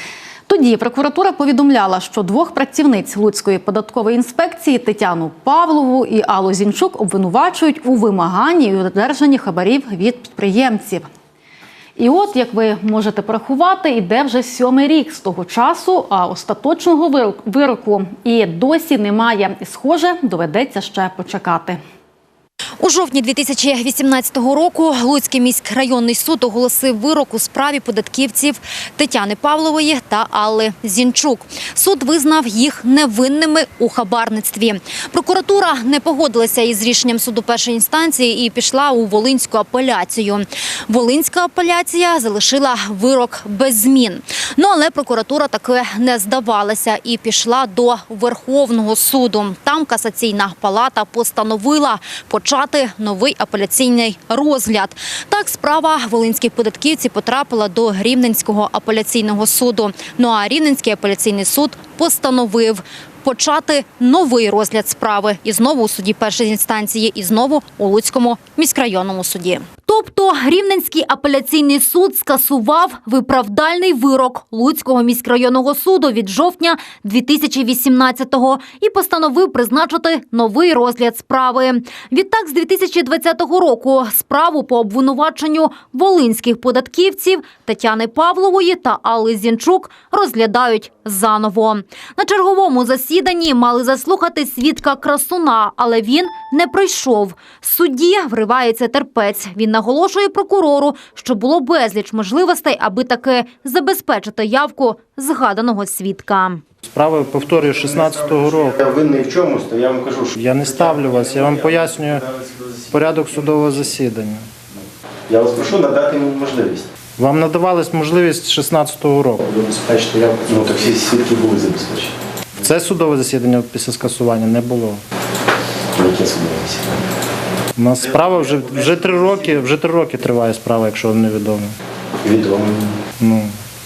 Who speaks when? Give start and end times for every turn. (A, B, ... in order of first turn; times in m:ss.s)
0:00.5-0:11.1 A
0:12.0-0:21.8 A
0:22.8-1:46.6 B
1:46.8-1:48.8 C
1:48.8-1:53.3 D
1:50.4-1:52.3 C
1:52.9-1:54.5 C
1:55.3-1:56.8 D
1:57.2-2:00.5 C
2:00.4-2:02.1 D
2:02.6-2:05.0 C
2:05.9-2:07.0 D
2:07.8-2:11.7 C
2:12.2-2:13.0 D
2:13.2-2:13.5 C